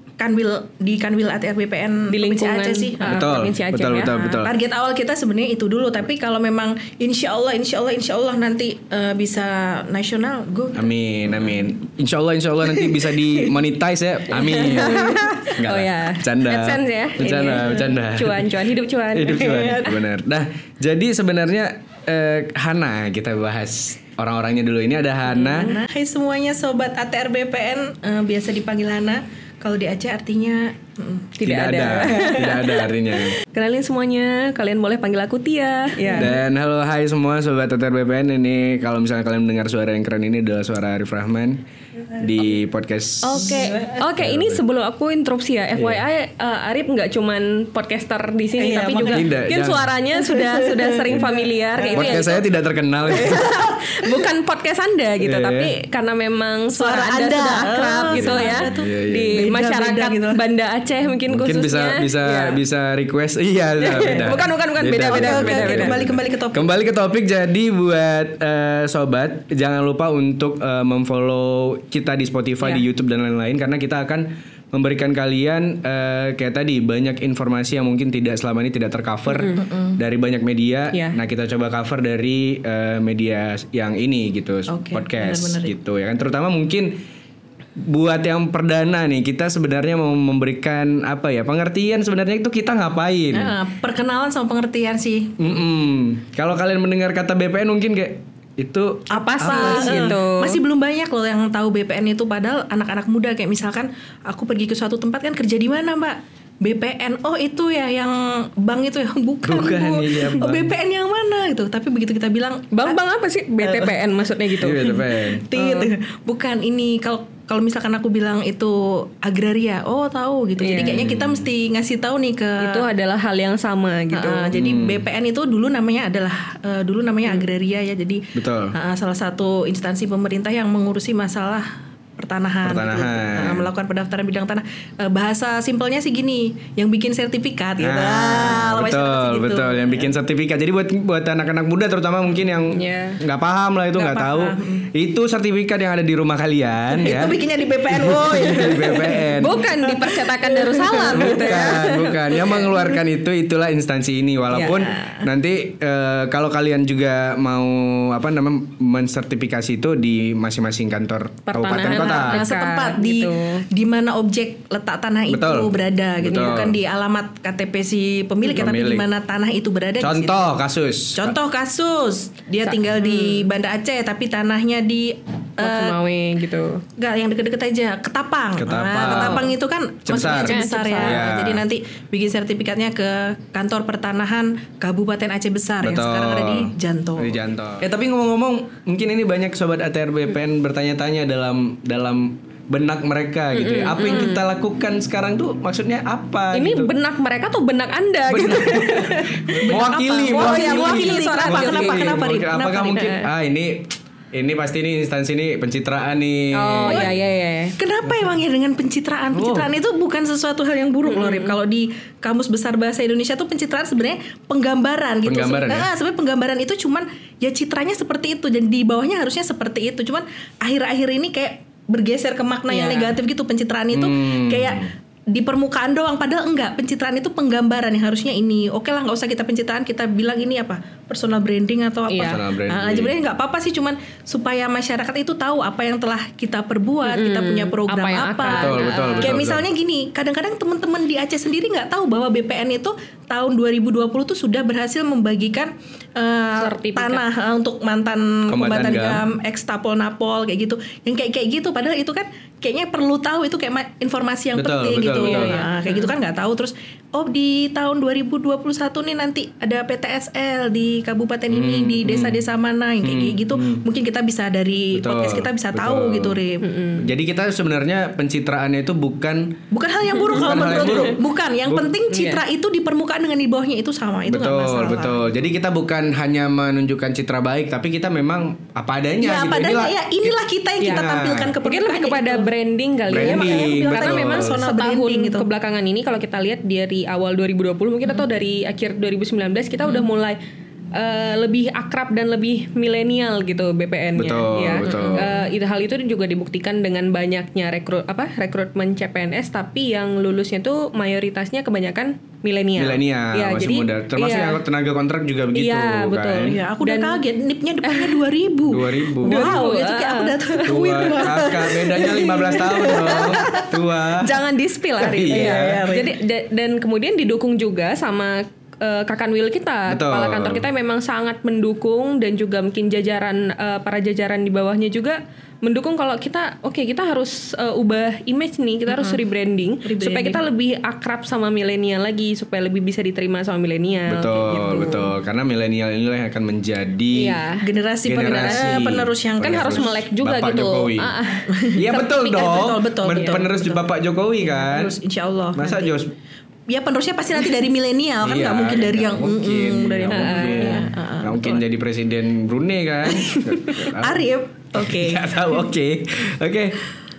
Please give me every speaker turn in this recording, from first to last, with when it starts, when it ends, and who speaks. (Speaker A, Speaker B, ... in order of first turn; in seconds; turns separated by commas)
Speaker A: 0.2-3.2, Speaker B: 2.1-4.2, Speaker C: 3.0-4.5, Speaker A: 4.1-10.9, Speaker C: 10.8-18.5, Speaker B: 14.3-19.9, Speaker A: 15.0-15.3, Speaker C: 19.1-25.7, Speaker A: 19.4-19.9, Speaker B: 25.3-25.7, Speaker A: 25.6-32.7, Speaker B: 31.4-36.4, Speaker C: 31.4-33.4, Speaker A: 36.0-36.4, Speaker C: 36.2-41.6, Speaker C: 42.2-43.6, Speaker B: 43.2-52.5, Speaker A: 43.4-44.0, Speaker C: 44.2-44.6, Speaker C: 45.7-46.0, Speaker A: 48.6-49.4, Speaker C: 49.1-49.9, Speaker A: 50.1-52.3, Speaker C: 51.9-53.4, Speaker B: 53.1-62.6, Speaker A: 53.1-54.3, Speaker C: 55.2-55.7, Speaker A: 56.7-60.4, Speaker C: 58.1-59.4, Speaker C: 61.3-86.9, Speaker B: 63.8-66.0, Speaker A: 65.0-66.7, Speaker B: 79.3-79.7, Speaker A: 79.7-80.0, Speaker B: 80.9-81.2, Speaker A: 84.7-85.7, Speaker C: 87.8-93.5, Speaker A: 93.3-95.4, Speaker C: 95.4-100.2, Speaker A: 99.1-113.0, Speaker B: 99.1-100.6, Speaker C: 109.4-110.7, Speaker B: 112.7-115.9, Speaker A: 113.6-114.0, Speaker C: 114.6-115.4, Speaker A: 114.8-122.9, Speaker B: 120.6-121.1, Speaker C: 120.8-121.4, Speaker B: 122.6-124.5, Speaker A: 124.1-140.1, Speaker C: 124.5-125.0, Speaker C: 128.3-128.7, Speaker C: 132.6-133.7, Speaker C: 137.8-147.3, Speaker B: 142.7-143.2, Speaker A: 143.9-144.9, Speaker A: 146.9-152.0, Speaker C: 147.9-149.6, Speaker B: 149.4-152.6, Speaker C: 151.1-162.4, Speaker A: 152.5-152.9, Speaker A: 154.5-155.3, Speaker B: 154.5-154.9, Speaker B: 161.5-163.7, Speaker A: 161.8-170.6, Speaker C: 165.3-166.8, Speaker B: 166.3-166.6, Speaker C: 168.5-169.1, Speaker C: 170.0-171.3, Speaker A: 171.2-176.0, Speaker B: 172.6-173.5, Speaker B: 175.6-176.8, Speaker A: 177.0-187.4, Speaker C: 178.6-179.5, Speaker B: 179.0-179.5, Speaker C: 180.1-181.6, Speaker B: 180.1-181.3, Speaker C: 185.8-196.9, Speaker B: 193.5-194.4, Speaker B: 196.5-202.2, Speaker C: 198.3-207.1, Speaker A: 199.6-203.3, Speaker B: 206.5-207.8, Speaker A: 207.8-266.7, Speaker C: 209.3-209.7, Speaker B: 211.1-211.6, Speaker C: 215.2-215.9, Speaker B: 222.7-223.2, Speaker C: 223.9-224.9, Speaker B: 232.1-232.4, Speaker C: 232.2-233.2, Speaker B: 237.0-239.4, Speaker C: 238.5-239.6, Speaker B: 246.6-247.2, Speaker C: 248.5-249.2, Speaker C: 254.6-255.6, Speaker B: 255.2-256.1, Speaker C: 261.5-262.4, Speaker C: 263.0-263.8, Speaker C: 264.9-266.4, Speaker B: 266.6-267.1, Speaker C: 267.0-269.6, Speaker A: 269.7-275.2, Speaker B: 270.2-271.1, Speaker C: 270.3-271.9, Speaker B: 272.1-272.4, Speaker C: 274.3-280.3, Speaker A: 279.2-282.5, Speaker B: 280.8-290.4, Speaker C: 280.9-281.5, Speaker C: 283.1-284.6, Speaker A: 283.1-285.5, Speaker A: 289.8-290.1, Speaker B: 290.9-304.6, Speaker C: 294.2-295.3, Speaker A: 294.9-295.5, Speaker C: 302.8-306.6, Speaker B: 305.5-307.2, Speaker A: 306.4-313.7, Speaker B: 307.8-308.2, Speaker C: 308.7-309.6, Speaker B: 309.2-311.6, Speaker C: 310.6-314.3, Speaker B: 312.5-313.5, Speaker B: 314.2-335.1, Speaker C: 315.0-315.8, Speaker A: 315.1-316.1, Speaker C: 319.9-320.6, Speaker A: 328.9-329.2, Speaker A: 329.8-330.4, Speaker C: 334.1-337.4, Speaker B: 337.1-337.7, Speaker A: 337.6-340.0, Speaker C: 338.1-341.2, Speaker B: 338.3-341.6, Speaker A: 341.4-346.1, Speaker C: 341.8-344.9, Speaker B: 343.2-343.4, Speaker C: 345.5-346.1, Speaker A: 346.7-351.6, Speaker C: 348.2-356.8, Speaker B: 350.1-350.9, Speaker A: 353.1-355.7